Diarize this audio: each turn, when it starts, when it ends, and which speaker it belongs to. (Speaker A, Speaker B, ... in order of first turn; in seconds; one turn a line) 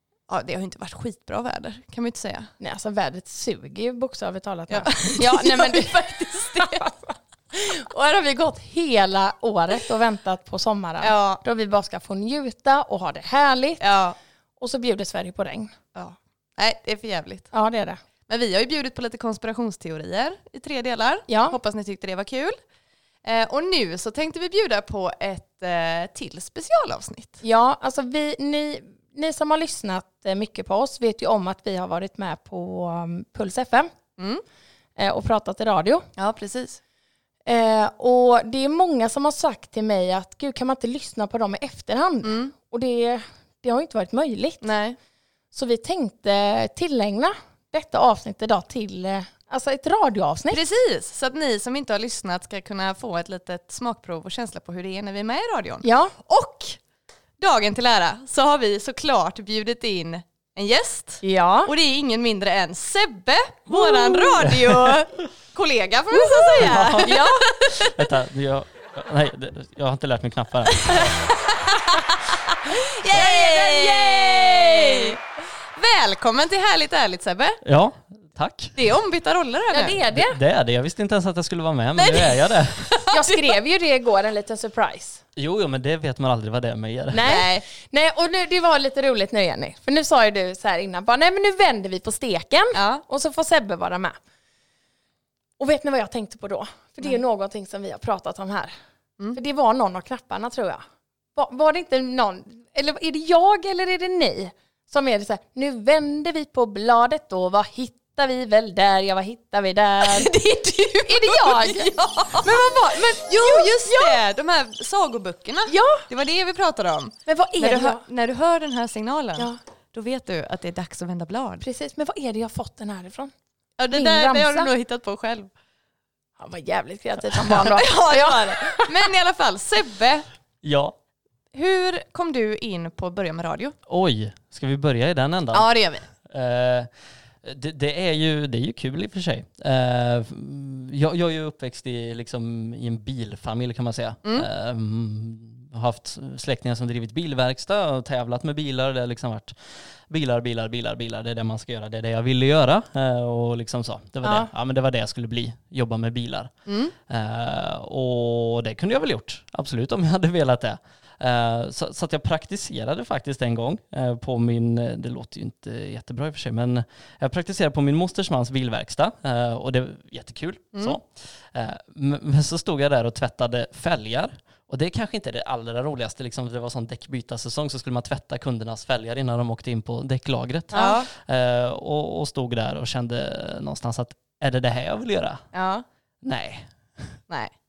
Speaker A: 0.3-2.5
Speaker B: 2.6-13.8
Speaker A: 4.7-6.8
Speaker A: 11.0-11.4
Speaker A: 13.8-14.2
Speaker B: 14.6-15.7
Speaker A: 15.9-17.5
Speaker B: 17.5-18.0
Speaker A: 18.3-22.6
Speaker B: 21.3-21.5
Speaker A: 23.2-27.4
Speaker B: 27.4-33.9
Speaker A: 34.2-34.4
Speaker B: 35.0-36.1
Speaker A: 36.2-36.8
Speaker B: 37.5-44.6
Speaker A: 42.2-42.5
Speaker A: 44.6-45.0
Speaker B: 45.5-50.6
Speaker A: 50.5-56.8
Speaker B: 55.8-56.1
Speaker A: 57.4-67.9
Speaker B: 61.2-61.7
Speaker B: 63.7-64.4
Speaker C: 64.5-64.8
Speaker B: 66.2-67.5
Speaker C: 66.6-67.2
Speaker C: 67.8-71.1
Speaker A: 70.8-75.2
Speaker B: 73.1-75.2
Speaker A: 75.8-77.6
Speaker C: 77.6-78.8
Speaker A: 78.8-80.0
Speaker B: 79.7-80.4
Speaker C: 80.1-82.9
Speaker A: 82.0-83.5
Speaker B: 83.1-85.2
Speaker C: 85.3-87.3
Speaker B: 87.1-94.2
Speaker A: 87.2-87.6
Speaker A: 92.7-93.0
Speaker B: 95.6-98.7
Speaker B: 99.3-100.8
Speaker B: 101.3-110.3
Speaker A: 110.0-112.6
Speaker B: 111.1-114.2
Speaker A: 113.2-121.6
Speaker B: 115.7-116.0
Speaker B: 117.2-118.0
Speaker B: 121.6-123.3
Speaker A: 123.8-125.5
Speaker B: 123.9-124.7
Speaker B: 126.4-128.9
Speaker A: 127.4-130.2
Speaker C: 130.6-130.9
Speaker A: 131.5-133.7
Speaker C: 133.9-135.7
Speaker A: 135.5-136.1
Speaker C: 136.2-136.9
Speaker C: 137.4-156.5
Speaker B: 154.2-154.5
Speaker A: 156.7-156.9
Speaker C: 157.1-185.4
Speaker B: 180.7-181.0
Speaker A: 180.7-181.1
Speaker A: 185.5-185.8
Speaker C: 186.2-187.2